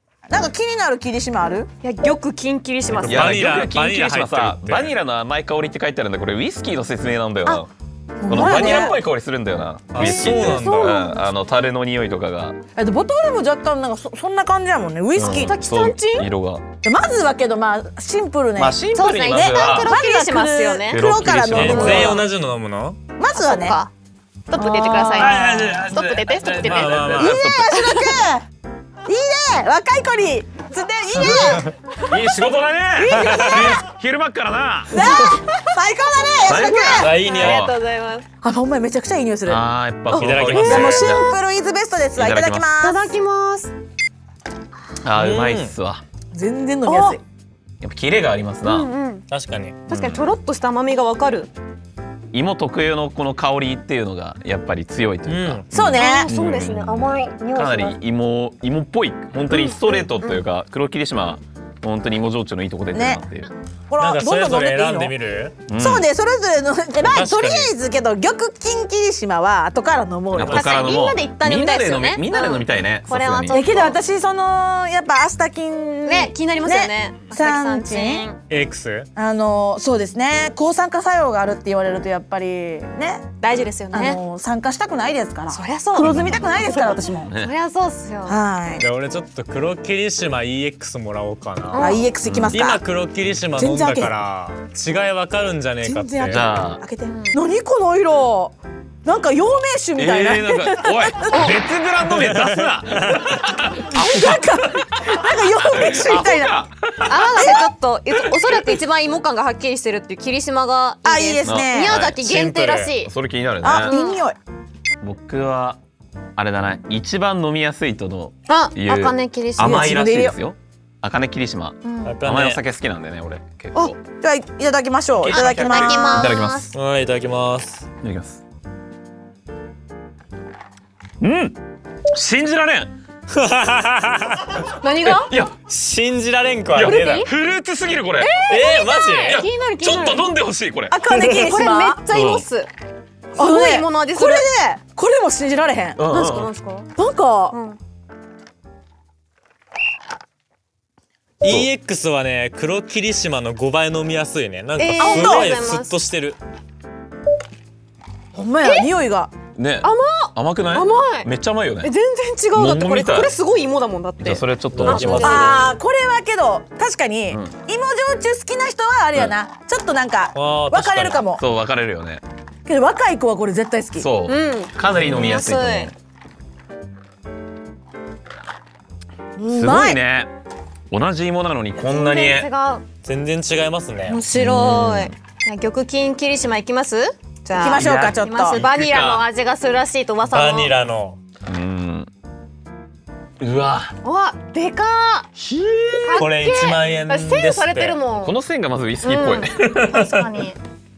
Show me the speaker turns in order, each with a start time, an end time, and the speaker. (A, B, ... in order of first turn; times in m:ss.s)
0:00.3-0:01.7 A
0:01.8-0:03.5 B
0:02.9-0:05.0 C
0:03.0-0:07.7 D
0:08.2-0:09.0 A
0:08.2-0:12.6 D
0:08.3-0:08.9 B
0:09.9-0:11.2 C
0:10.0-0:10.2 A
0:10.0-0:11.3 B
0:12.8-0:15.6 A
0:15.1-0:16.6 D
0:15.2-0:16.3 B
0:16.8-0:22.2 A
0:18.6-0:19.9 D
0:18.9-0:21.2 B
0:20.9-0:22.2 D
0:21.5-0:23.0 C
0:23.2-0:23.8 A
0:23.3-0:23.9 B
0:24.5-0:27.2 B
0:24.5-0:25.6 A
0:25.0-0:27.5 C
0:25.6-0:26.1 D
0:26.7-0:27.9 D
0:27.2-0:28.4 A
0:27.7-0:28.1 B
0:29.0-0:31.7 A
0:31.2-0:35.0 D
0:31.4-0:31.7 C
0:33.0-0:33.8 A
0:33.1-0:33.8 C
0:34.9-0:37.1 A
0:36.4-0:37.8 D
0:36.4-0:38.2 B
0:36.8-0:37.7 C
0:38.4-0:39.7 A
0:39.4-0:41.3 D
0:40.1-0:41.4 B
0:40.1-0:41.1 C
0:40.6-0:43.1 A
0:42.1-0:42.8 D
0:42.8-0:43.7 B
0:45.0-0:46.0 D
0:45.1-0:45.7 C
0:46.3-0:47.2 A
0:46.8-0:47.2 B
0:47.8-0:48.9 D
0:48.6-0:49.2 B
0:49.3-0:49.8 C
0:49.9-0:51.5 B
0:49.9-0:50.3 D
0:52.3-1:03.5 D
0:55.2-0:55.7 C
0:55.7-0:56.3 A
0:56.0-0:58.0 B
0:59.5-1:00.4 B
1:02.9-1:03.2 A
1:03.9-1:05.1 A
1:04.0-1:05.6 C
1:05.7-1:06.1 D
1:05.7-1:10.9 A
1:07.0-1:07.7 C
1:10.3-1:13.7 D
1:10.4-1:14.0 B
1:13.5-1:18.3 A
1:16.0-1:18.4 B
1:18.5-1:19.1 C
1:19.2-1:23.2 A
1:23.4-1:24.2 B
1:23.9-1:27.3 A
1:25.5-1:28.4 B
1:25.9-1:26.6 D
1:27.3-1:27.5 D
1:28.3-1:28.9 A
1:28.8-1:32.0 C
1:31.7-1:32.1 B
1:31.8-1:32.8 A
1:32.2-1:32.6 D
1:32.5-1:36.6 C
1:33.6-1:34.1 A
1:35.8-1:41.5 A
1:36.2-1:36.8 D
1:37.0-1:37.4 B
1:40.0-1:48.8 D
1:41.3-1:41.6 B
1:42.1-1:43.2 C
1:43.9-1:46.6 A
1:47.1-1:53.1 B
1:47.4-1:47.6 A
1:51.0-1:52.0 A
1:51.4-1:52.2 D
1:52.1-1:53.0 C
1:53.0-1:53.9 D
1:53.6-1:54.4 A
1:53.8-1:54.2 B
1:55.0-1:55.8 D
1:56.4-2:04.0 D
1:58.5-1:59.9 B
1:59.6-2:00.4 A
2:01.8-2:02.2 B
2:02.0-2:02.6 C
2:03.8-2:06.3 A
2:05.2-2:06.7 D
2:05.3-2:06.7 B
2:06.7-2:07.8 C
2:08.0-2:08.4 D
2:11.2-2:11.6 D
2:12.1-2:12.9 D
2:13.3-2:14.6 C
2:14.8-2:15.4 B
2:15.0-2:15.6 D
2:15.7-2:17.3 C
2:16.7-2:18.4 D
2:16.8-2:17.3 B
2:18.2-2:20.3 B
2:18.4-2:19.4 C
2:19.2-2:21.0 D
2:20.9-2:22.0 A
2:21.3-2:22.7 B
2:22.1-2:22.4 D
2:23.3-2:24.5 B
2:23.4-2:26.0 A
2:26.0-2:26.5 D
2:26.1-2:26.9 B
2:27.0-2:27.6 A
2:27.5-2:27.8 B
2:31.4-2:36.4 C
2:31.4-2:31.7 D
2:34.8-2:36.0 B
2:35.0-2:35.5 A
2:38.3-2:39.3 A
2:38.6-2:38.9 B
2:39.6-2:41.9 D
2:39.8-2:41.3 B
2:41.8-2:45.6 B
2:42.5-2:43.4 D
2:44.2-2:45.6 D
2:44.7-2:45.7 C
2:45.2-2:51.4 A
2:47.3-2:47.6 D
2:50.3-2:51.3 C
2:51.3-2:52.2 D
2:52.6-2:54.1 A
2:54.0-2:55.9 D
2:54.2-2:55.9 B
2:59.4-3:00.0 A
2:59.5-3:00.3 D
3:00.9-3:02.5 D
3:01.7-3:02.8 B
3:03.0-3:04.2 C
3:04.1-3:10.8 B
3:04.3-3:05.1 D
3:07.5-3:08.6 A
3:07.7-3:08.2 C
3:07.8-3:09.3 D
3:10.3-3:11.2 C
3:11.4-3:12.1 D
3:13.4-3:13.9 D
3:14.0-3:15.3 B
3:15.4-3:16.3 D
3:16.0-3:18.4 B
3:16.1-3:18.0 C
3:18.0-3:20.2 D
3:19.0-3:20.6 B